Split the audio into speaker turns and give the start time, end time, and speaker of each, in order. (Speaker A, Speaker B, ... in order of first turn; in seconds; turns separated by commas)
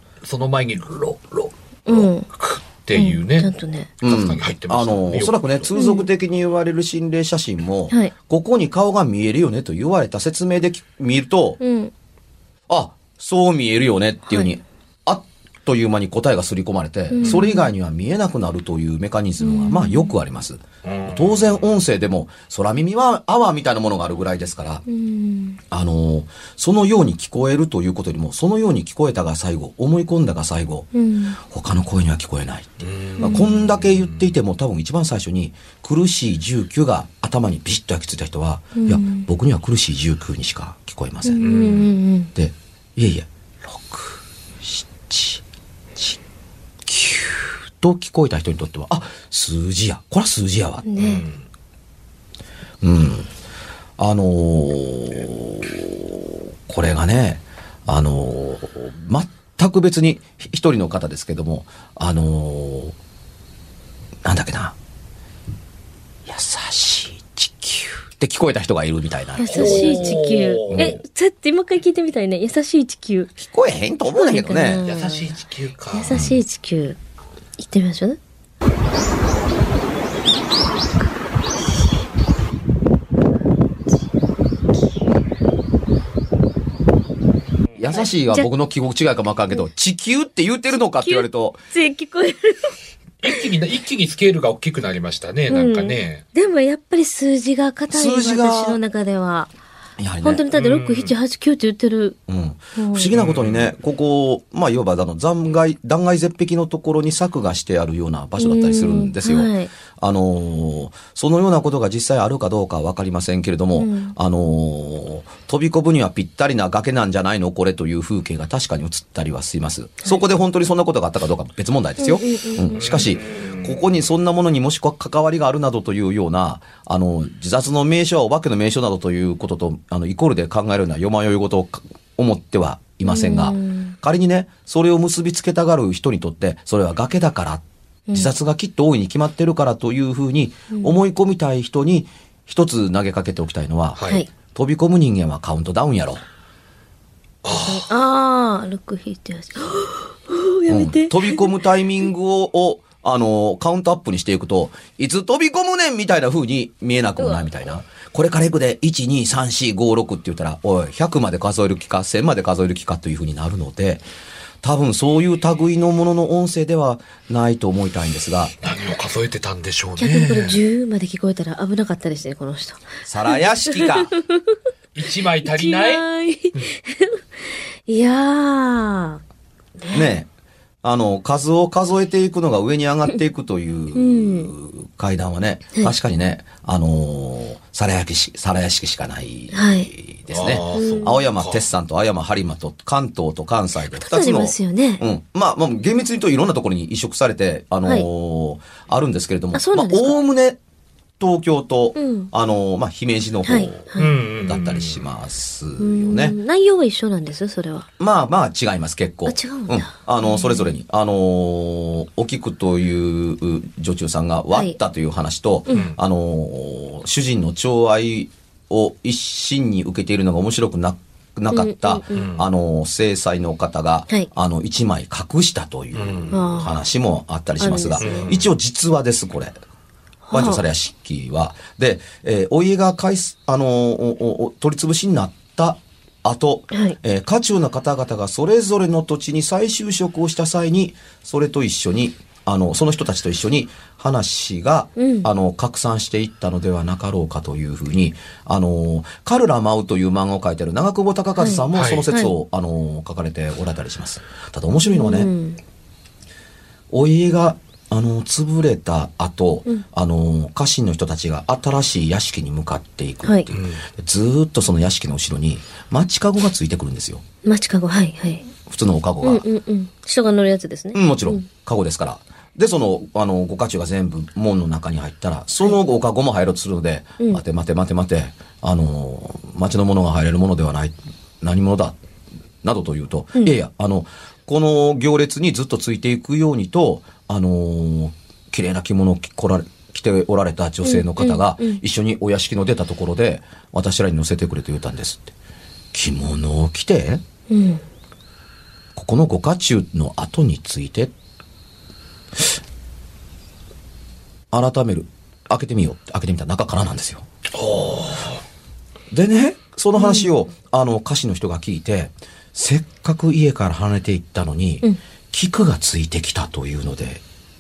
Speaker A: 0.2-5.7, Speaker B: 1.9-2.3, Speaker B: 2.9-3.9, Speaker C: 4.0-11.6, Speaker B: 5.8-6.1, Speaker B: 11.6-11.9, Speaker C: 12.7-24.8, Speaker B: 17.1-17.7, Speaker B: 19.4-20.1, Speaker A: 20.8-21.7, Speaker B: 24.9-25.6, Speaker C: 25.7-41.5, Speaker B: 30.9-31.4, Speaker A: 32.8-34.3, Speaker B: 38.8-39.3, Speaker B: 41.2-42.3, Speaker A: 41.4-41.9, Speaker C: 42.4-45.4, Speaker C: 46.9-50.9, Speaker B: 50.8-51.3, Speaker A: 51.0-51.4, Speaker C: 52.8-53.3, Speaker C: 54.0-63.0, Speaker C: 64.2-64.8, Speaker C: 66.3-70.2, Speaker B: 69.4-73.3, Speaker A: 69.5-71.0, Speaker C: 70.7-71.0, Speaker C: 73.4-74.8, Speaker B: 74.1-75.4, Speaker A: 74.8-76.2, Speaker B: 75.9-77.0, Speaker C: 76.1-76.4, Speaker B: 77.6-78.2, Speaker A: 87.7-88.1, Speaker C: 87.8-91.6, Speaker B: 87.9-88.5, Speaker B: 90.9-92.8, Speaker A: 93.2-96.2, Speaker B: 95.5-99.5, Speaker C: 97.9-98.8, Speaker C: 100.0-100.4, Speaker B: 100.2-102.2, Speaker A: 100.5-101.1, Speaker C: 102.3-146.2, Speaker B: 102.8-103.1, Speaker A: 103.1-103.7, Speaker B: 108.4-109.7, Speaker B: 113.8-114.2, Speaker B: 122.0-122.9, Speaker A: 122.7-123.7, Speaker B: 133.0-133.9, Speaker B: 140.7-141.0, Speaker A: 143.9-144.2, Speaker A: 147.4-147.9, Speaker B: 147.6-151.5, Speaker C: 150.7-164.0, Speaker C: 164.6-168.5, Speaker A: 168.6-170.6, Speaker B: 170.0-172.8, Speaker C: 173.1-174.1, Speaker B: 173.6-174.6, Speaker A: 174.9-176.0, Speaker B: 175.4-179.2, Speaker B: 179.8-180.1, Speaker C: 179.9-180.3, Speaker C: 180.8-200.6, Speaker B: 183.9-184.5, Speaker B: 189.5-189.9, Speaker A: 190.3-191.6, Speaker B: 190.7-191.2, Speaker B: 193.9-195.1, Speaker B: 199.5-200.2, Speaker C: 201.2-203.9, Speaker B: 201.9-202.3, Speaker B: 203.4-204.1, Speaker A: 204.0-205.0, Speaker C: 204.4-206.4, Speaker B: 205.8-207.9, Speaker C: 208.0-229.6, Speaker B: 209.3-210.7, Speaker A: 215.7-216.0, Speaker B: 221.5-222.3, Speaker A: 222.1-222.4, Speaker A: 225.9-226.5, Speaker B: 226.3-226.7, Speaker B: 227.6-228.3, Speaker A: 228.0-228.5, Speaker B: 230.3-230.6, Speaker C: 230.3-255.3, Speaker B: 245.0-245.3, Speaker B: 251.4-252.3, Speaker A: 251.7-252.1, Speaker B: 254.8-255.6, Speaker C: 256.9-267.2, Speaker B: 263.2-263.5, Speaker A: 263.5-263.8, Speaker B: 267.4-268.5, Speaker C: 268.7-269.5, Speaker B: 269.2-271.5, Speaker C: 270.9-282.0, Speaker C: 282.6-295.3, Speaker B: 290.8-291.8, Speaker C: 295.9-297.2, Speaker B: 297.5-297.8, Speaker C: 298.9-301.1, Speaker C: 304.5-307.2, Speaker A: 307.5-308.4, Speaker C: 309.1-317.2, Speaker B: 310.0-310.3